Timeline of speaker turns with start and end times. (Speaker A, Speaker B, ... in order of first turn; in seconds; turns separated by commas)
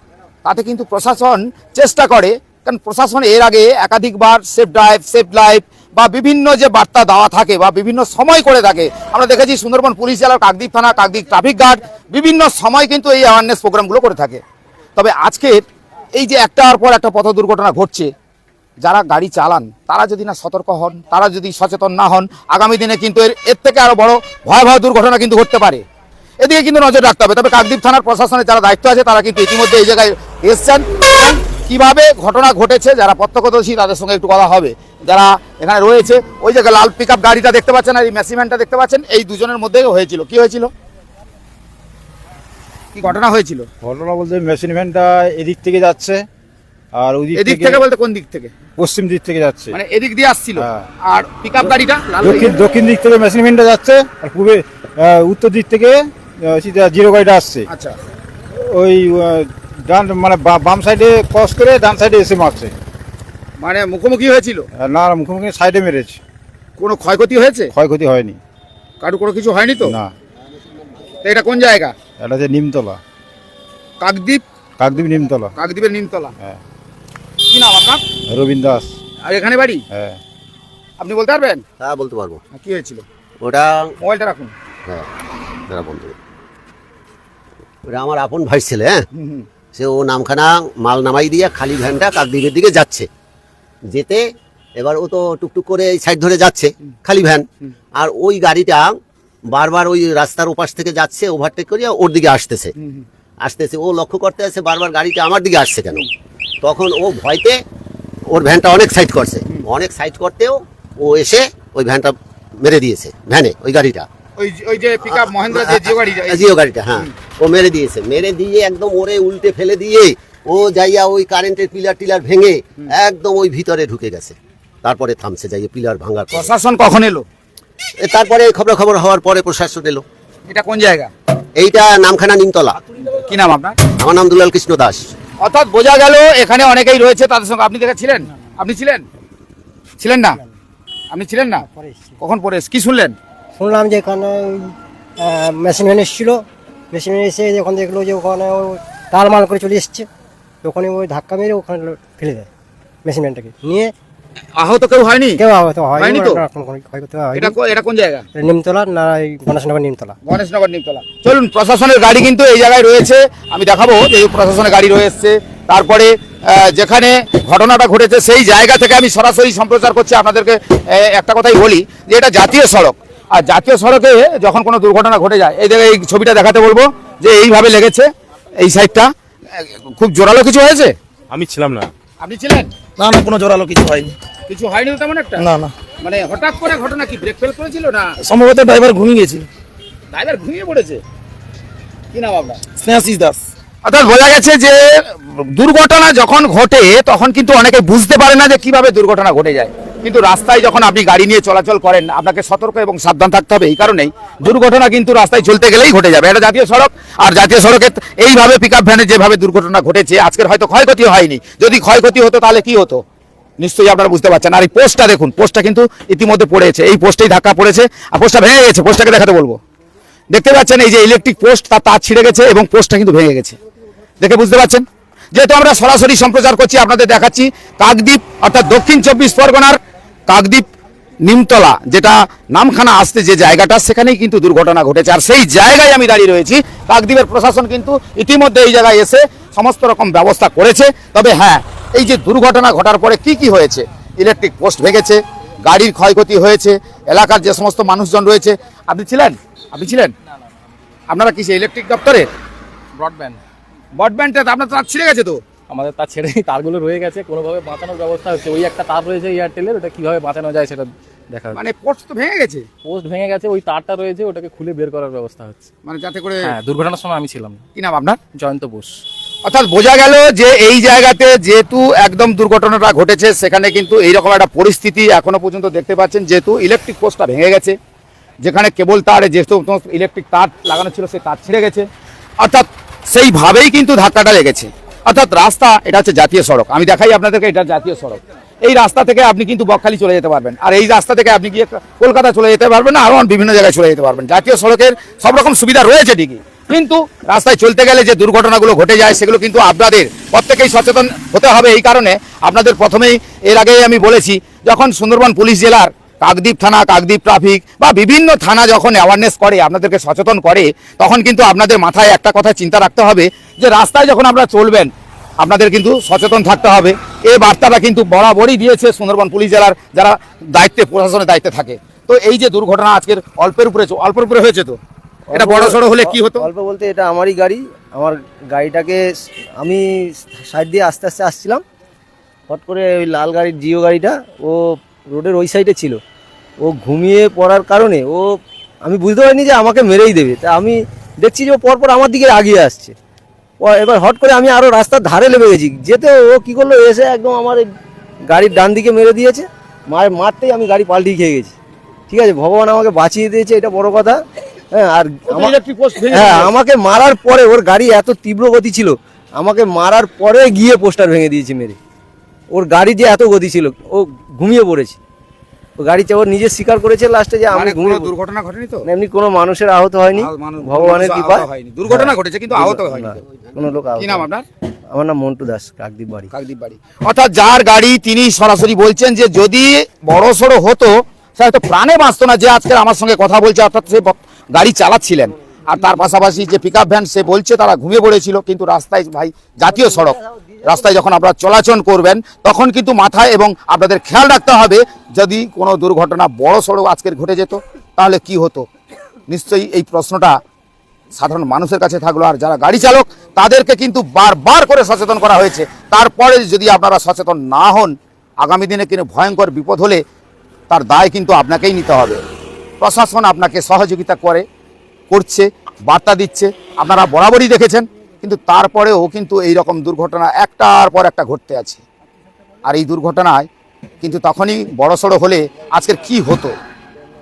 Speaker A: 0.4-14.4, Speaker A: 15.0-15.6, Speaker A: 16.1-18.1, Speaker A: 18.8-25.8, Speaker A: 26.4-40.7, Speaker A: 42.9-43.7, Speaker B: 43.8-46.3, Speaker B: 46.9-47.8, Speaker A: 47.4-48.5, Speaker B: 48.8-49.8, Speaker A: 49.7-52.6, Speaker B: 50.6-50.9, Speaker B: 52.2-57.7, Speaker A: 57.7-58.0, Speaker B: 58.6-62.7, Speaker A: 63.6-64.7, Speaker B: 64.7-66.2, Speaker A: 66.8-67.7, Speaker B: 67.7-68.4, Speaker A: 69.0-70.0, Speaker B: 69.8-70.1, Speaker A: 71.2-71.9, Speaker B: 72.2-73.0, Speaker A: 74.0-74.4, Speaker B: 74.8-75.5, Speaker A: 75.6-76.3, Speaker A: 77.5-78.0, Speaker B: 78.3-78.9, Speaker A: 79.2-79.8, Speaker B: 79.9-80.2, Speaker A: 81.0-81.6, Speaker C: 81.8-82.4, Speaker A: 82.5-83.0, Speaker C: 83.4-83.9, Speaker A: 84.0-84.5, Speaker C: 85.7-86.2, Speaker C: 87.9-89.1, Speaker A: 89.2-89.5, Speaker C: 89.8-93.1, Speaker C: 93.9-94.2, Speaker C: 94.8-99.0, Speaker C: 99.5-102.7, Speaker C: 103.4-106.1, Speaker C: 106.6-107.6, Speaker C: 108.3-114.1, Speaker A: 114.4-116.5, Speaker C: 115.3-126.5, Speaker A: 126.3-127.3, Speaker C: 128.0-130.1, Speaker A: 130.5-131.1, Speaker C: 131.6-132.8, Speaker A: 133.1-133.8, Speaker C: 134.0-135.1, Speaker A: 135.4-139.1, Speaker A: 140.0-140.4, Speaker A: 141.1-141.7, Speaker D: 141.7-142.2, Speaker A: 142.2-143.2, Speaker D: 143.6-150.1, Speaker D: 150.6-152.5, Speaker D: 153.1-153.9, Speaker A: 154.6-155.4, Speaker D: 155.4-157.6, Speaker A: 156.0-156.4, Speaker A: 157.3-158.3, Speaker D: 158.3-160.2, Speaker A: 160.3-180.9, Speaker E: 181.3-181.9, Speaker A: 182.2-182.7, Speaker E: 183.0-184.2, Speaker A: 184.5-185.4, Speaker E: 185.4-185.7, Speaker A: 186.0-188.1, Speaker E: 188.2-189.5, Speaker A: 190.1-191.0, Speaker A: 192.1-192.6, Speaker E: 192.8-193.4, Speaker A: 193.8-213.0, Speaker A: 213.6-219.6, Speaker A: 220.3-223.6, Speaker A: 224.2-230.7, Speaker A: 231.2-250.1, Speaker A: 251.1-252.3, Speaker F: 253.0-253.4, Speaker A: 254.0-255.4, Speaker F: 255.7-261.6, Speaker A: 261.5-262.7, Speaker F: 262.9-265.6, Speaker A: 265.9-266.5, Speaker F: 266.4-267.6, Speaker A: 267.8-268.2, Speaker F: 268.3-269.0, Speaker A: 269.4-277.8, Speaker A: 278.4-281.9, Speaker A: 282.4-324.8, Speaker G: 325.3-329.0, Speaker A: 325.3-326.5, Speaker G: 329.6-331.6, Speaker G: 332.5-336.0, Speaker G: 336.6-338.3, Speaker G: 338.8-342.9, Speaker G: 343.6-347.6, Speaker G: 348.3-351.5, Speaker G: 352.1-354.2, Speaker G: 354.7-355.6, Speaker A: 355.3-356.5, Speaker G: 356.1-361.8, Speaker G: 362.5-365.0, Speaker G: 365.8-368.1, Speaker A: 367.5-368.9, Speaker G: 368.9-374.3, Speaker A: 370.1-373.2, Speaker A: 374.0-374.4, Speaker G: 374.9-376.3, Speaker A: 376.3-398.7, Speaker G: 389.9-390.5, Speaker A: 399.3-400.4, Speaker A: 401.1-410.0, Speaker A: 410.7-412.2, Speaker A: 412.8-414.4, Speaker A: 415.1-421.8, Speaker A: 422.6-423.5, Speaker A: 424.0-426.6